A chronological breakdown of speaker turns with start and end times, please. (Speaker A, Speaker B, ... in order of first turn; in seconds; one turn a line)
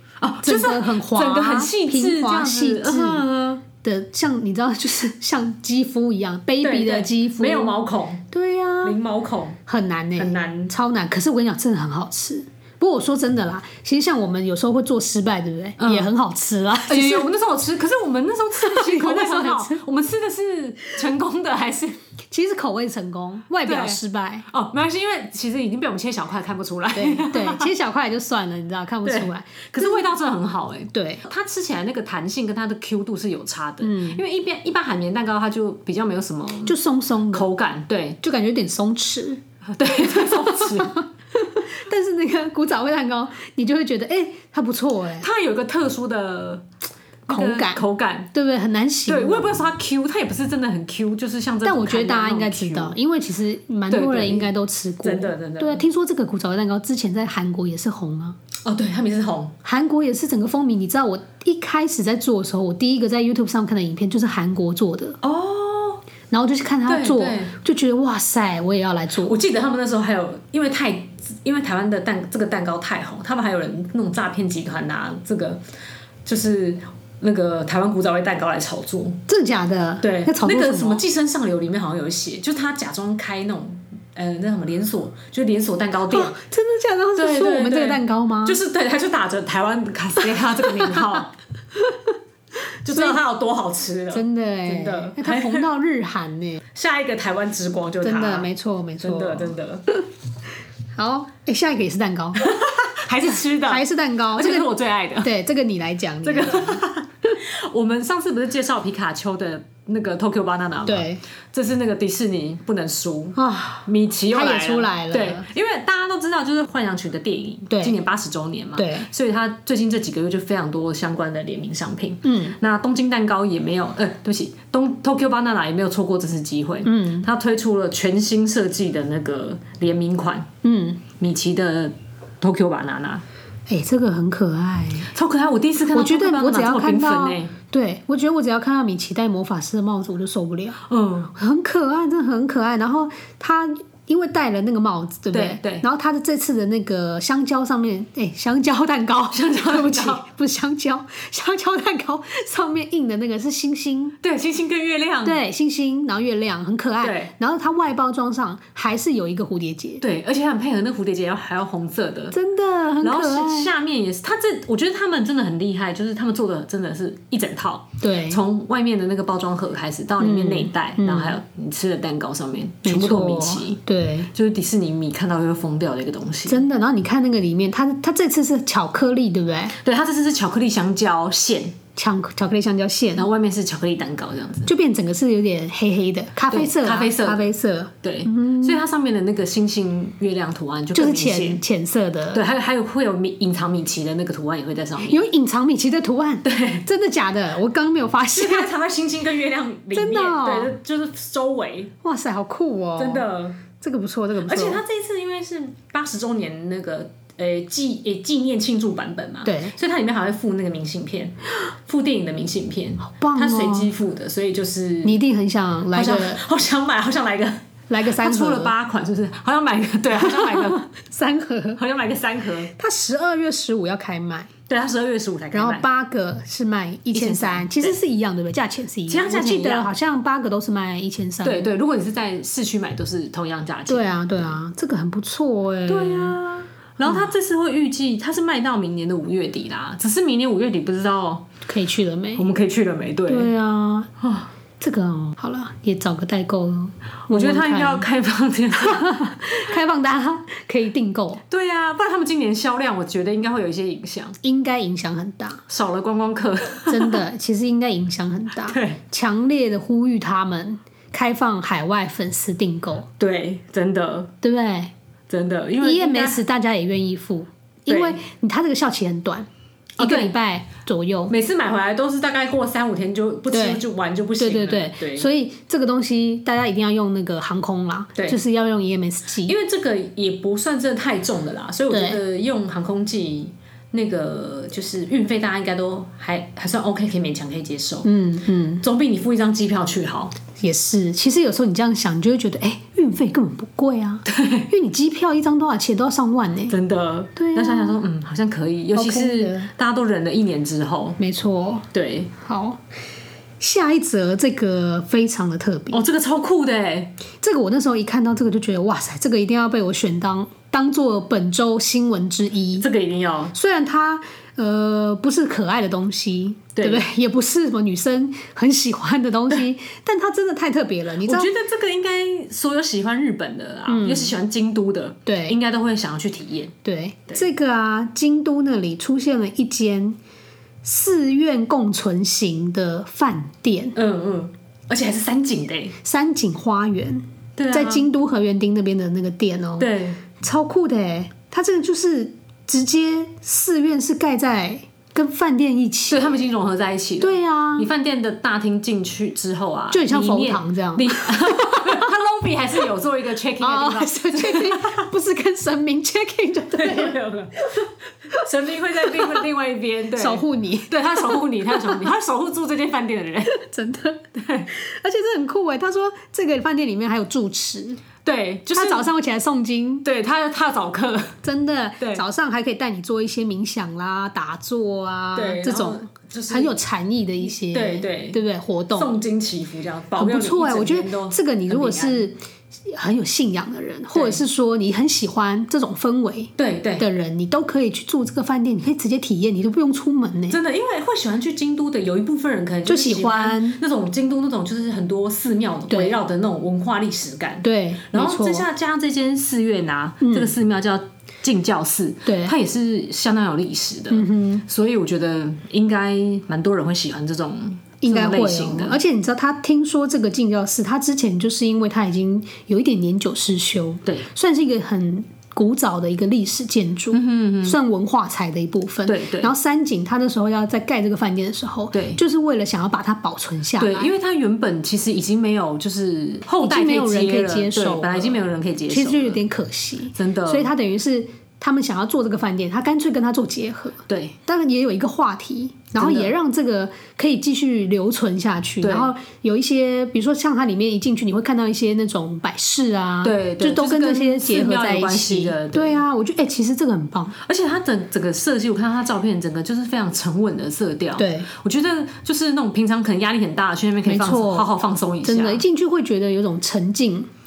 Speaker A: 0.2-3.6
Speaker B: 0.4-7.8
Speaker A: 6.6-8.2
Speaker B: 8.3-9.0
Speaker A: 8.8-9.6
Speaker B: 9.7-17.3
Speaker A: 10.2-10.7
Speaker A: 15.8-16.1
Speaker A: 16.9-22.0
Speaker B: 18.6-19.8
Speaker B: 22.3-24.4
Speaker A: 23.6-27.7
Speaker B: 26.9-30.1
Speaker A: 29.0-36.8
Speaker B: 30.9-31.2
Speaker B: 33.8-34.2
Speaker B: 36.6-37.5
Speaker A: 37.3-38.2
Speaker B: 38.2-39.4
Speaker A: 39.6-41.0
Speaker B: 40.0-45.3
Speaker A: 45.2-46.6
Speaker A: 47.3-48.3
Speaker B: 47.3-49.7
Speaker A: 49.1-53.0
Speaker B: 51.6-58.4
Speaker A: 53.9-54.5
Speaker A: 55.0-55.8
Speaker A: 58.6-59.5
Speaker B: 59.6-65.2
Speaker A: 65.2-66.0
Speaker B: 66.3-69.4
Speaker A: 66.9-67.5
Speaker A: 69.2-75.6
Speaker A: 76.2-79.2
Speaker B: 79.3-81.0
Speaker A: 80.0-86.3
Speaker B: 86.1-88.6
Speaker A: 87.2-91.3
Speaker B: 90.3-91.2
Speaker B: 91.7-92.2
Speaker A: 92.8-95.7
Speaker B: 92.8-93.2
Speaker B: 94.1-96.6
Speaker A: 96.7-98.5
Speaker B: 98.0-100.0
Speaker A: 99.0-99.9
Speaker B: 100.9-102.6
Speaker A: 102.4-105.3
Speaker B: 103.3-106.8
Speaker A: 106.2-130.5
Speaker B: 110.8-111.2
Speaker B: 113.3-115.5
Speaker B: 117.7-118.0
Speaker B: 118.8-119.1
Speaker B: 122.2-122.5
Speaker B: 126.8-127.2
Speaker B: 130.6-131.0
Speaker A: 131.1-133.2
Speaker B: 133.7-135.1
Speaker A: 135.1-137.5
Speaker B: 135.9-140.8
Speaker A: 140.9-141.3
Speaker B: 141.3-154.2
Speaker A: 145.3-145.8
Speaker A: 149.3-150.2
Speaker A: 154.2-155.4
Speaker B: 155.2-160.0
Speaker A: 157.0-157.3
Speaker A: 160.0-162.3
Speaker B: 162.3-163.7
Speaker A: 163.0-173.8
Speaker B: 168.0-168.4
Speaker B: 170.2-171.4
Speaker B: 172.8-174.3
Speaker A: 174.3-176.6
Speaker B: 176.5-179.8
Speaker A: 179.8-181.8
Speaker B: 181.9-183.3
Speaker A: 183.1-184.7
Speaker B: 184.7-188.8
Speaker A: 186.5-187.5
Speaker A: 188.0-191.6
Speaker B: 190.9-192.4
Speaker A: 192.3-195.2
Speaker B: 195.0-198.7
Speaker A: 196.4-196.8
Speaker A: 198.3-201.9
Speaker B: 199.9-200.7
Speaker B: 202.0-204.8
Speaker A: 203.0-203.6
Speaker A: 204.4-215.2
Speaker B: 209.4-209.7
Speaker B: 213.1-213.9
Speaker B: 215.0-216.4
Speaker A: 215.9-220.9
Speaker B: 217.9-218.7
Speaker B: 220.2-221.8
Speaker A: 221.8-222.7
Speaker B: 222.8-224.5
Speaker A: 224.7-225.8
Speaker B: 225.5-231.7
Speaker A: 227.1-227.9
Speaker A: 229.1-229.9
Speaker A: 231.4-234.6
Speaker B: 233.9-236.4
Speaker A: 235.9-241.5
Speaker B: 237.0-237.3
Speaker B: 241.6-242.4
Speaker A: 242.3-243.5
Speaker B: 243.3-244.1
Speaker A: 244.2-244.5
Speaker B: 244.8-248.1
Speaker A: 247.3-249.1
Speaker B: 248.7-251.4
Speaker A: 251.5-254.4
Speaker B: 254.4-255.6
Speaker A: 255.7-257.2
Speaker B: 256.9-263.1
Speaker A: 258.7-259.0
Speaker A: 263.2-264.3
Speaker B: 264.4-264.9
Speaker A: 265.3-266.4
Speaker B: 265.8-269.5
Speaker A: 267.9-268.2
Speaker A: 270.0-270.3
Speaker B: 270.0-271.3
Speaker A: 271.3-275.3
Speaker B: 273.5-273.8
Speaker B: 274.4-279.6
Speaker A: 279.4-288.1
Speaker B: 281.9-282.2
Speaker B: 288.0-288.8
Speaker A: 288.8-290.4
Speaker B: 290.6-296.8
Speaker A: 294.3-294.7
Speaker A: 296.7-301.2
Speaker B: 297.4-298.0
Speaker B: 298.9-299.7
Speaker B: 301.2-301.9
Speaker A: 301.9-302.3
Speaker B: 302.4-302.8
Speaker B: 303.6-306.0
Speaker A: 305.9-307.1
Speaker B: 307.4-312.9
Speaker A: 312.8-313.5
Speaker B: 313.5-321.5
Speaker A: 316.8-317.1
Speaker A: 321.2-326.7
Speaker B: 323.9-324.4
Speaker B: 325.2-325.6
Speaker B: 326.8-330.2
Speaker B: 330.8-333.9
Speaker A: 333.9-335.9
Speaker B: 336.0-346.2
Speaker A: 337.6-338.1
Speaker A: 339.8-340.2
Speaker A: 346.1-355.0
Speaker B: 347.2-347.9
Speaker B: 349.9-352.1
Speaker B: 353.6-357.2
Speaker A: 356.7-363.6
Speaker B: 360.1-362.1
Speaker B: 363.5-368.0
Speaker A: 364.3-364.7
Speaker A: 368.2-369.1
Speaker B: 368.7-370.0
Speaker A: 370.0-371.4
Speaker B: 371.4-379.1
Speaker A: 375.3-376.8
Speaker A: 377.4-378.4
Speaker A: 378.9-382.3
Speaker B: 380.1-390.6
Speaker A: 384.1-384.4
Speaker A: 386.6-387.1
Speaker A: 390.5-409.0
Speaker B: 392.9-393.8
Speaker B: 395.9-396.1
Speaker B: 397.6-398.7
Speaker B: 400.2-400.5
Speaker B: 402.2-402.6
Speaker B: 404.1-404.6
Speaker B: 408.0-424.1
Speaker A: 417.1-417.8
Speaker A: 419.0-419.5
Speaker A: 421.9-422.2
Speaker A: 423.8-429.4
Speaker B: 426.6-447.4
Speaker A: 430.1-430.7
Speaker A: 434.1-434.3
Speaker A: 436.0-436.3
Speaker A: 438.8-439.1
Speaker A: 443.2-446.0
Speaker A: 447.4-455.6
Speaker B: 451.2-451.5
Speaker B: 454.0-454.7
Speaker B: 455.2-457.3